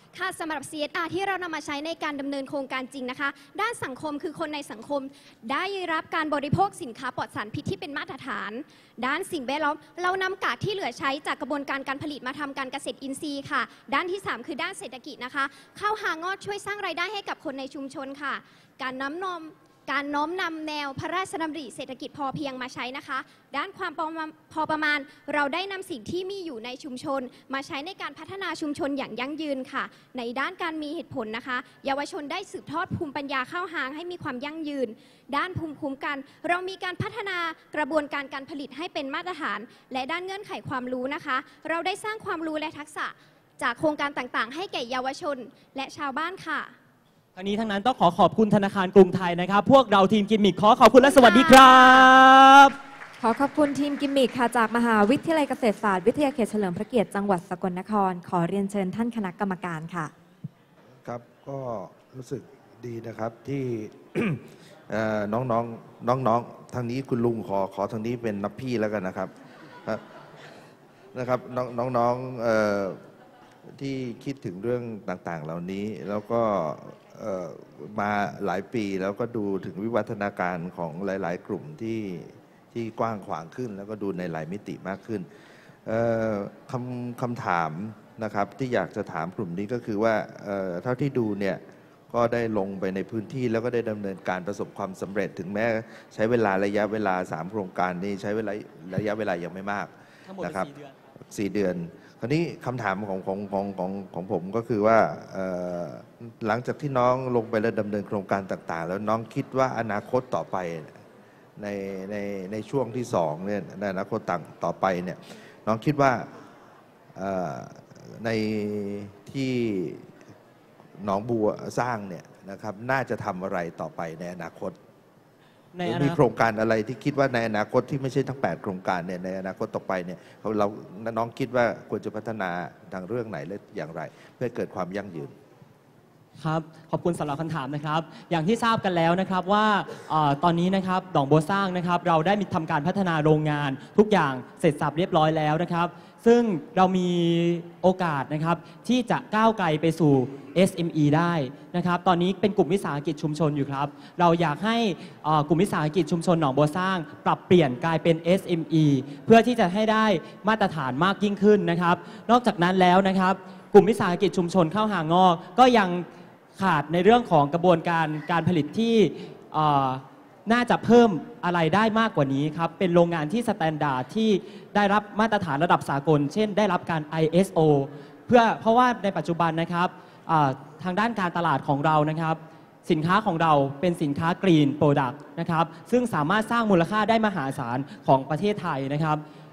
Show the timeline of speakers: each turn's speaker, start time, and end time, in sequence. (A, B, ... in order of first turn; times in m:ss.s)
0:00.1-0:46.7 A
0:47.4-0:52.8 B
0:51.0-0:52.1 A
0:53.2-1:00.1 C
1:01.0-1:09.3 D
1:11.1-1:13.0 D
1:13.7-1:25.3 D
1:25.8-1:40.7 D
1:40.3-1:40.9 B
1:41.3-1:51.0 D
1:51.6-1:56.3 D
1:57.1-2:00.1 D
2:01.0-2:04.8 D
2:05.7-2:06.2 B
2:05.8-2:15.3 D
2:16.4-2:46.0 B
2:46.6-3:09.2 B